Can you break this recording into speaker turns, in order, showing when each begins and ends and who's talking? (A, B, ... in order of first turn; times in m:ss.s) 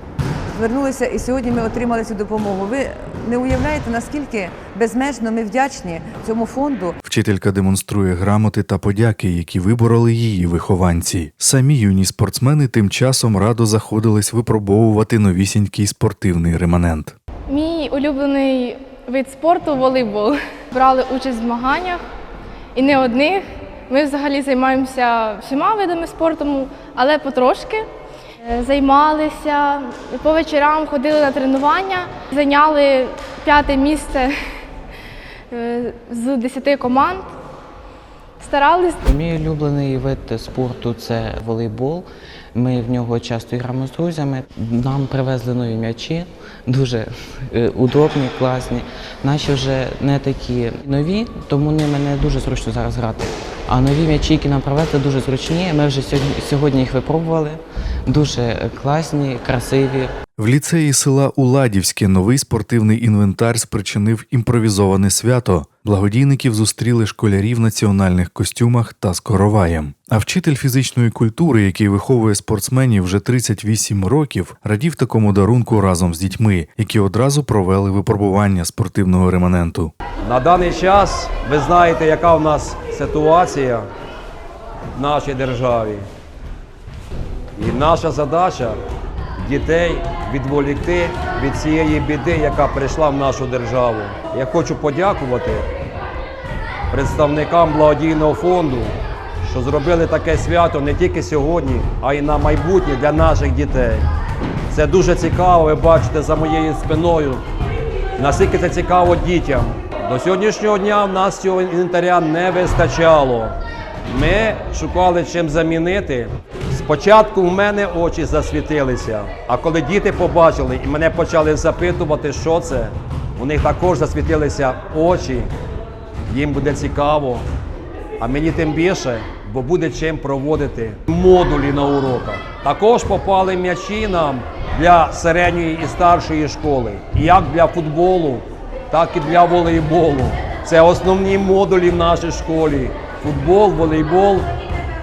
0:00.5-0:07.0 A
0:07.0-0:17.2 B
0:17.5-0:22.0 C
0:22.8-0:27.8 C
0:28.4-0:34.3 C
0:35.5-0:37.3 C
0:38.4-0:39.0 C
0:39.1-1:00.1 D
1:00.4-1:19.9 B
1:20.2-1:23.8 E
1:25.0-1:26.0 E
1:27.6-1:28.8 E
1:29.4-1:35.7 E
1:36.9-1:38.9 E
1:39.4-1:44.1 E
1:44.7-1:47.4 E
1:48.2-1:53.6 E
1:54.1-2:05.5 E
2:06.3-2:07.4 E
2:08.2-2:24.4 E